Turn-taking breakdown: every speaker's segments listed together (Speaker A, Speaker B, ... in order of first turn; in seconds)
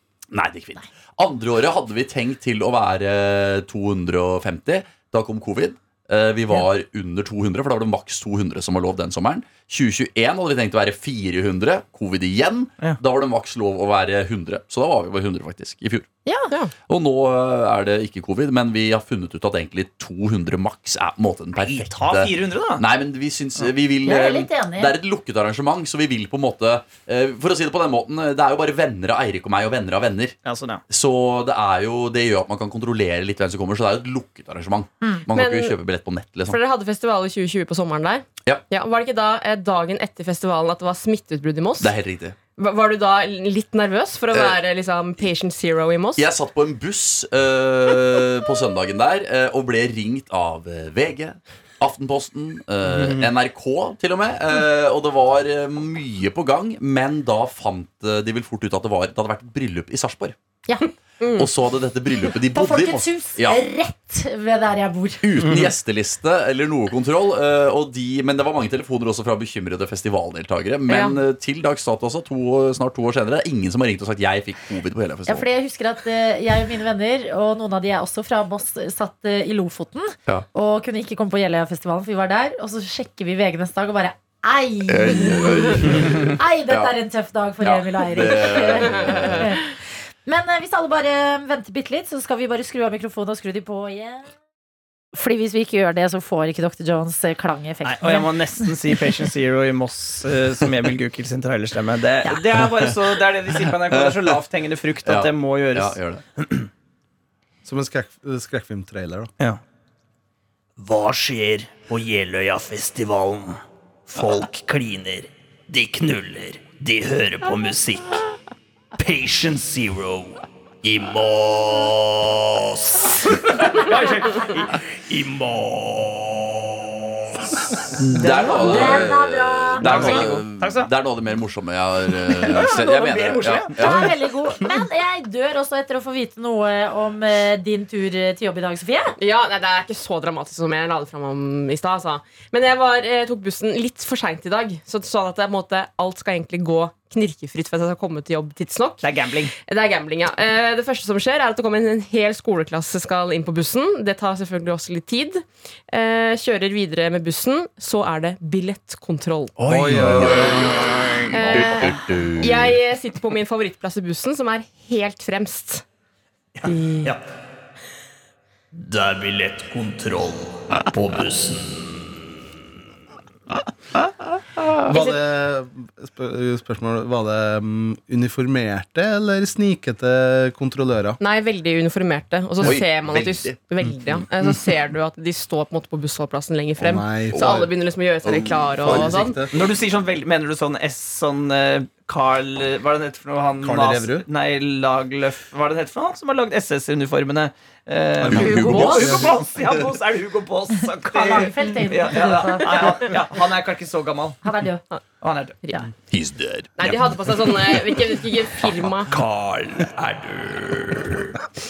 Speaker A: 0.3-16.1, 16.9-30.4, 30.9-36.6, 41.8-42.4, 44.3-44.6, 46.1-60.4, 61.3-63.6, 65.2-75.5, 84.9-86.9, 87.6-89.6, 103.9-104.4, 105.0-106.2, 128.0-134.2, 159.6-162.8, 174.6-174.9, 182.6-183.6, 187.3-187.7, 188.2-189.2, 198.3-199.3, 206.1-208.0
Speaker B: 16.2-16.5, 24.0-25.0, 62.5-65.4, 75.3-94.3, 95.1-99.0, 128.2-130.2, 132.6-132.8, 133.8-139.1, 201.0-203.2, 204.4-204.8
Speaker C: 21.6-22.8, 30.4-30.8, 53.0-53.2, 97.8-106.0, 123.2-124.7, 128.5-129.0, 129.8-130.9, 132.3-134.1, 149.0-149.5, 166.6-167.2, 189.5-204.4, 205.2-205.6
Speaker D: 35.3-35.8, 36.5-41.9, 42.6-46.2, 60.8-61.5, 70.9-71.2, 129.9-130.4, 139.2-149.1, 149.6-159.5, 161.3-165.8, 166.7-167.1, 174.9-175.2, 181.2-189.4, 198.3-199.2, 206.8-209.1
Speaker E: 107.6-109.3, 159.7-160.9, 174.8-181.2, 186.8-187.7, 188.8-189.5, 193.6-194.2, 198.2-199.5
Speaker F: 110.8-118.2, 119.0-123.7, 124.3-127.8, 168.8-172.1, 209.1-211.3